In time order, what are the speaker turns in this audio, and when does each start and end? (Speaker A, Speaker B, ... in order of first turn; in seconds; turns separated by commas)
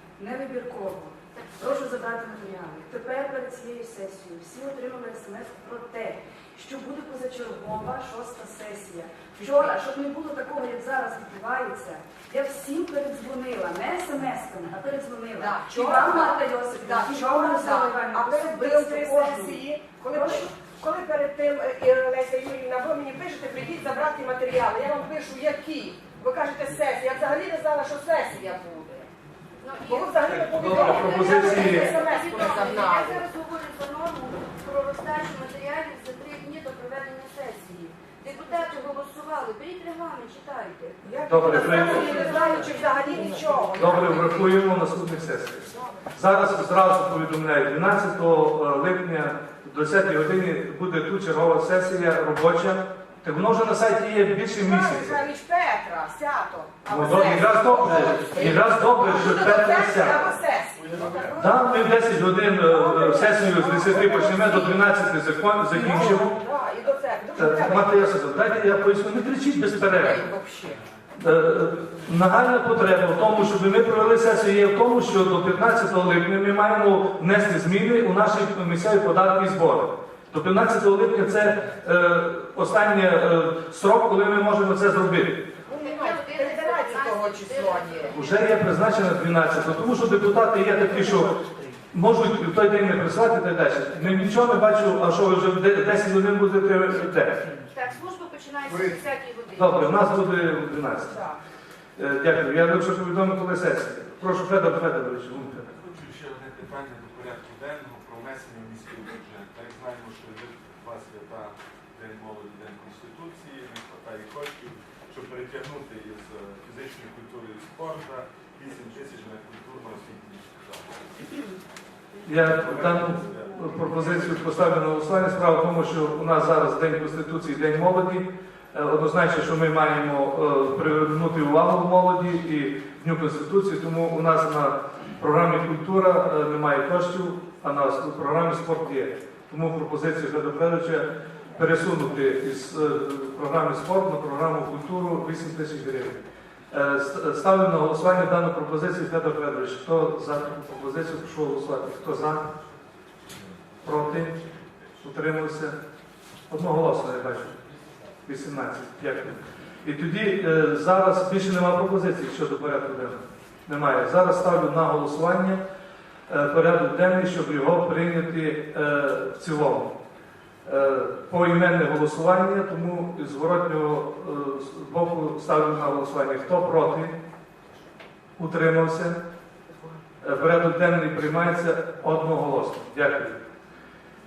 Speaker A: 0.2-20.5, Speaker B: 1.4-1.8, Speaker C: 15.4-29.1, Speaker B: 29.6-43.6, Speaker C: 29.9-33.2, Speaker D: 30.5-31.9, Speaker C: 41.0-44.6, Speaker D: 41.2-42.3, Speaker D: 43.8-55.2, Speaker C: 54.6-61.8, Speaker D: 56.9-60.3, Speaker E: 60.8-61.5, Speaker D: 61.4-66.3, Speaker C: 62.7-64.8, Speaker C: 65.7-68.2, Speaker D: 67.4-70.3, Speaker C: 69.9-70.8, Speaker D: 71.2-85.4, Speaker C: 85.7-88.2, Speaker B: 85.7-88.5, Speaker D: 88.1-91.4, Speaker D: 91.9-97.5, Speaker B: 97.7-100.1, Speaker D: 98.7-99.0, Speaker D: 99.5-101.2, Speaker C: 101.0-101.4, Speaker D: 102.0-105.8, Speaker E: 105.7-121.3, Speaker D: 122.2-152.5, Speaker E: 122.4-124.6, Speaker E: 153.3-155.0, Speaker D: 153.8-154.3, Speaker D: 155.0-155.8, Speaker D: 156.5-157.6, Speaker D: 158.3-165.6, Speaker D: 166.3-169.9, Speaker D: 170.7-177.1, Speaker D: 178.4-179.2, Speaker D: 180.2-183.4